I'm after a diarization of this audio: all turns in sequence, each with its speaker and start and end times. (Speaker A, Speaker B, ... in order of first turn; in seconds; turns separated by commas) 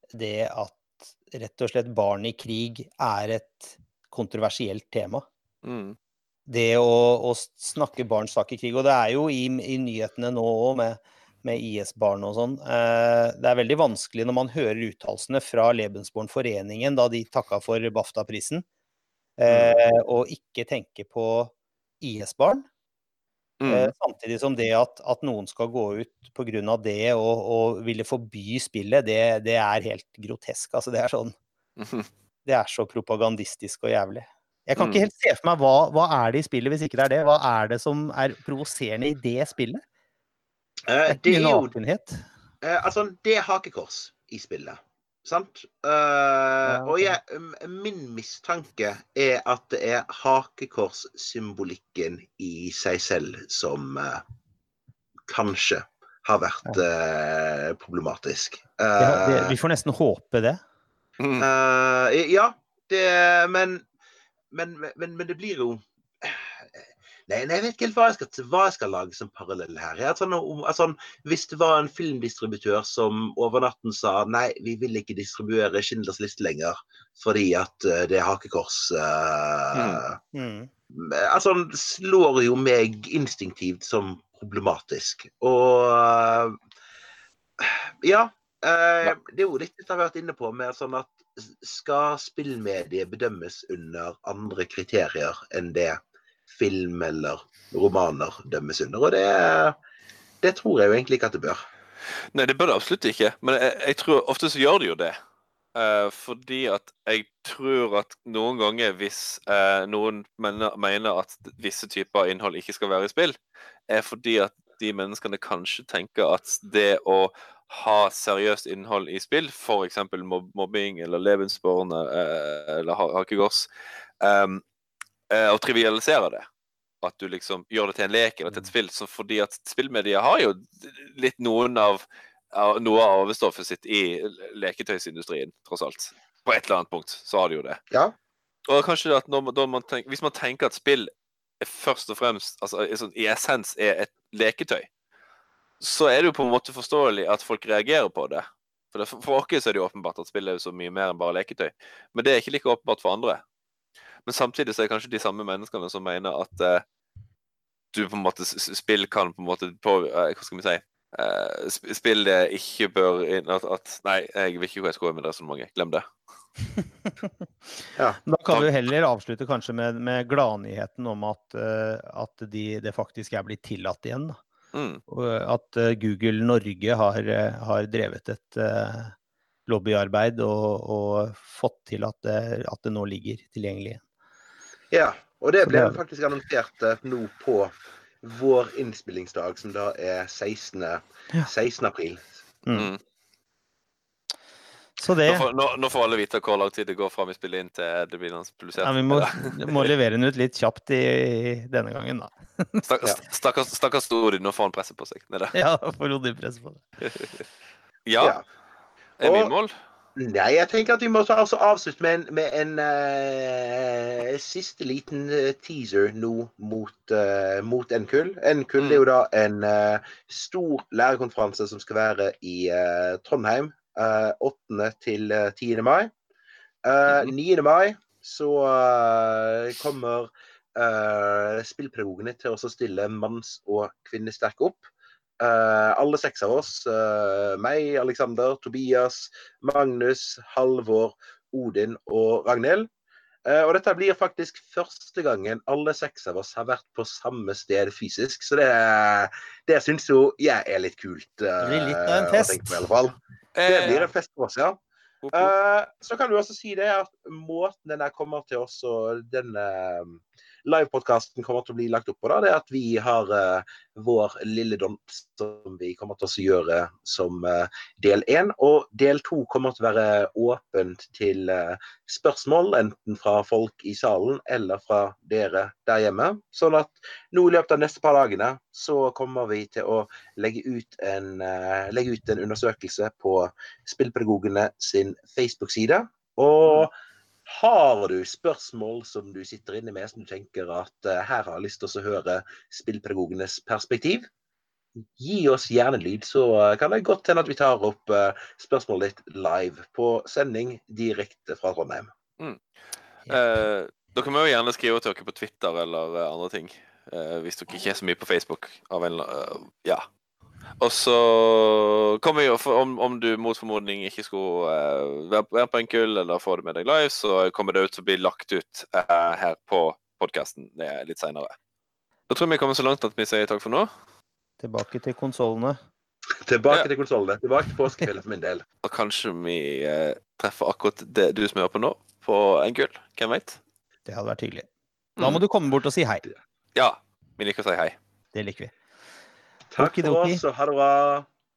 Speaker A: 0.1-5.3, Speaker B: 5.6-6.0, Speaker A: 6.5-18.6, Speaker A: 19.4-22.7, Speaker B: 19.5-19.8, Speaker B: 23.6-23.9, Speaker A: 23.7-31.3, Speaker B: 31.8-32.1, Speaker A: 32.5-39.8, Speaker B: 34.8-35.0, Speaker C: 40.9-41.7, Speaker A: 41.1-42.2, Speaker C: 42.6-54.2, Speaker A: 46.6-47.2, Speaker C: 55.3-59.5, Speaker A: 59.0-60.6, Speaker B: 61.2-61.5, Speaker C: 61.4-63.9, Speaker C: 64.5-80.2, Speaker B: 79.7-80.0, Speaker A: 80.3-80.7, Speaker C: 80.9-86.6, Speaker C: 87.6-99.8, Speaker C: 100.4-101.6, Speaker B: 102.3-105.2, Speaker B: 105.8-113.4, Speaker B: 113.9-123.7, Speaker B: 124.2-124.6, Speaker B: 125.3-126.5, Speaker B: 127.0-137.8, Speaker B: 138.7-144.9, Speaker B: 145.8-153.4, Speaker B: 154.3-156.8, Speaker B: 157.9-166.1, Speaker A: 168.3-174.4, Speaker B: 174.7-175.0, Speaker A: 175.1-179.1, Speaker A: 179.7-184.0, Speaker C: 184.9-192.3, Speaker A: 185.7-186.0, Speaker A: 195.0-195.5, Speaker B: 195.3-199.9, Speaker A: 198.8-202.8, Speaker B: 202.9-205.6, Speaker A: 205.5-206.8, Speaker B: 208.1-208.4, Speaker B: 209.2-209.7, Speaker C: 209.2-209.5, Speaker C: 210.2-226.1, Speaker B: 218.8-219.0, Speaker C: 226.8-234.8, Speaker C: 235.4-242.9, Speaker C: 243.5-253.2, Speaker A: 251.6-252.8, Speaker B: 253.6-254.1, Speaker C: 253.7-254.8, Speaker B: 255.2-255.5, Speaker C: 255.3-286.9, Speaker C: 287.5-294.3, Speaker C: 295.1-302.1, Speaker B: 303.3-310.1, Speaker B: 310.8-321.5, Speaker B: 322.3-323.9, Speaker A: 324.6-325.8, Speaker C: 326.4-328.6, Speaker B: 328.8-333.6, Speaker A: 334.1-336.2, Speaker B: 336.8-337.9, Speaker A: 338.3-338.7, Speaker C: 339.7-341.3, Speaker A: 339.8-340.4